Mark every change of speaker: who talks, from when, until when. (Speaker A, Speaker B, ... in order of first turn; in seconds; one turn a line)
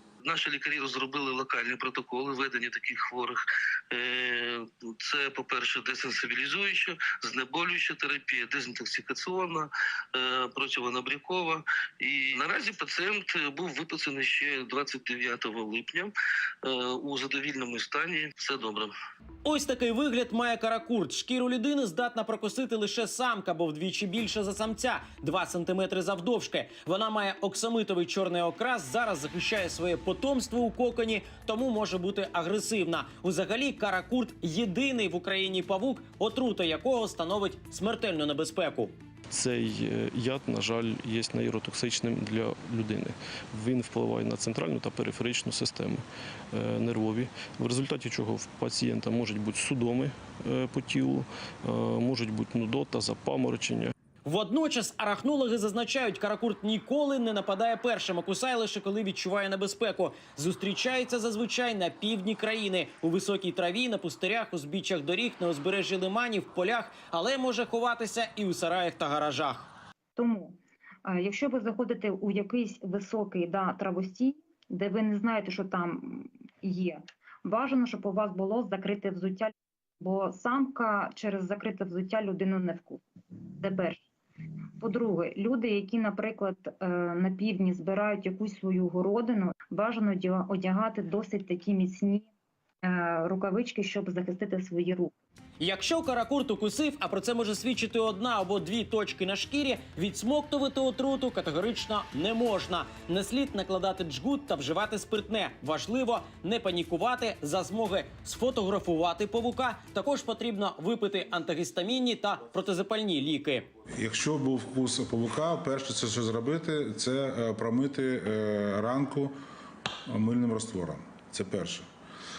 Speaker A: 0.2-3.4
Speaker A: 3.9-16.1
Speaker A: 16.6-18.9
Speaker B: 19.4-38.9
Speaker C: 39.3-53.9
Speaker B: 54.2-69.7
Speaker D: 70.2-83.0
Speaker D: 83.6-84.1
Speaker D: 84.8-92.3
Speaker D: 92.8-95.1
Speaker B: 95.6-113.7
Speaker E: 113.9-119.3
Speaker E: 120.1-121.9